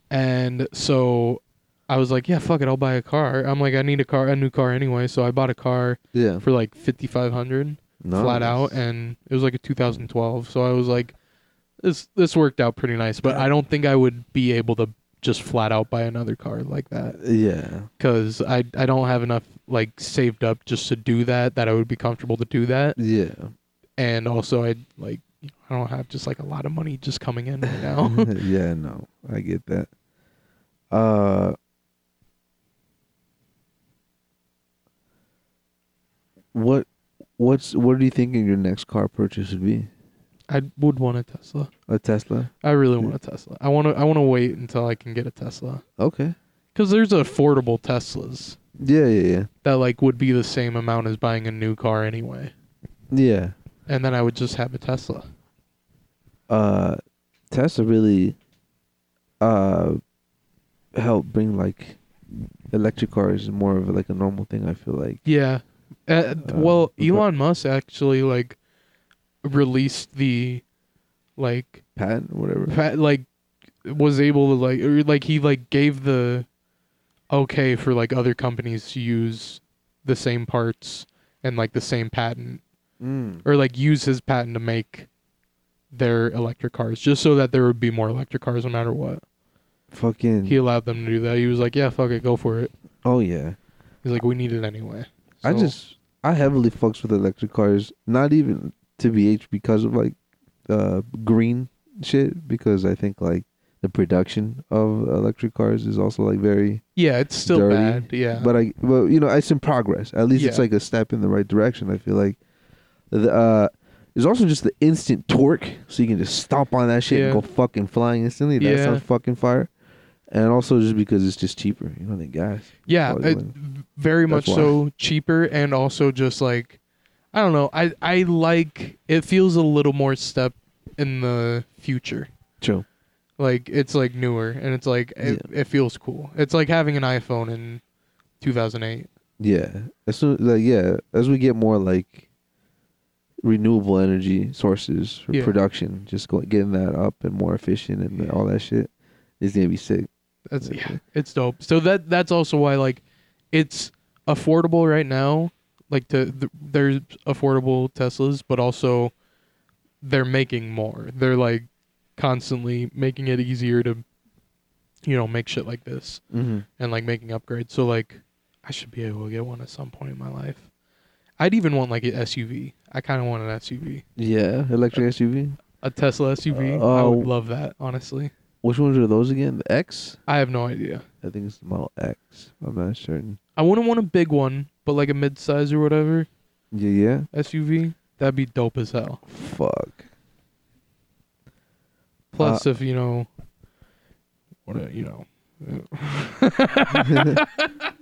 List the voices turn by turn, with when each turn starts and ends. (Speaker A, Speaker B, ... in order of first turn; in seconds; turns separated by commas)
Speaker A: 0.1-11.2, Speaker B: 6.1-6.4, Speaker B: 8.0-8.8, Speaker A: 11.8-17.2, Speaker B: 17.2-17.9, Speaker A: 18.0-23.0, Speaker B: 23.0-23.5, Speaker A: 24.0-28.3, Speaker B: 27.8-29.9, Speaker B: 30.9-31.6, Speaker B: 36.5-36.9, Speaker B: 37.4-39.9, Speaker A: 40.5-41.7, Speaker B: 41.9-43.1, Speaker A: 42.6-45.8, Speaker B: 46.0-46.4, Speaker A: 46.8-48.6, Speaker B: 48.8-49.5, Speaker A: 49.6-52.5, Speaker B: 53.1-53.5, Speaker A: 53.9-55.3, Speaker B: 56.5-57.0, Speaker B: 57.5-58.4, Speaker B: 59.4-60.0, Speaker B: 61.0-62.0, Speaker B: 62.7-65.2, Speaker A: 65.2-68.6, Speaker B: 66.4-67.2, Speaker A: 69.4-70.6, Speaker A: 71.4-71.8, Speaker B: 72.0-72.7, Speaker A: 72.7-73.3, Speaker A: 73.8-76.5, Speaker A: 77.3-82.6, Speaker B: 83.0-83.4, Speaker A: 83.4-85.1, Speaker A: 85.9-89.2, Speaker B: 89.9-90.6, Speaker A: 90.5-92.7, Speaker B: 93.0-93.6, Speaker A: 94.0-95.8, Speaker B: 95.4-100.2, Speaker B: 100.7-106.8, Speaker A: 107.0-108.5, Speaker B: 107.5-112.4, Speaker A: 110.3-110.7, Speaker B: 113.1-119.7, Speaker A: 117.1-117.4, Speaker A: 118.6-119.0, Speaker B: 120.3-123.5, Speaker A: 122.9-126.8, Speaker B: 124.3-124.8, Speaker A: 127.3-132.3, Speaker A: 133.4-137.8, Speaker A: 138.4-139.1, Speaker B: 139.4-142.3, Speaker B: 143.4-150.1, Speaker A: 150.5-159.1, Speaker B: 150.6-151.0, Speaker A: 160.0-164.0, Speaker A: 165.1-166.2, Speaker B: 166.3-166.7, Speaker A: 166.8-170.7, Speaker A: 171.4-174.1, Speaker B: 174.2-175.6, Speaker A: 175.8-178.3, Speaker B: 176.5-177.3, Speaker B: 178.6-180.2, Speaker A: 180.3-181.1, Speaker B: 181.2-183.4, Speaker A: 183.6-186.3, Speaker B: 186.7-187.3, Speaker A: 187.3-189.2, Speaker B: 189.3-190.0, Speaker B: 192.3-192.7, Speaker A: 192.3-193.3, Speaker A: 194.7-197.9, Speaker B: 197.1-197.4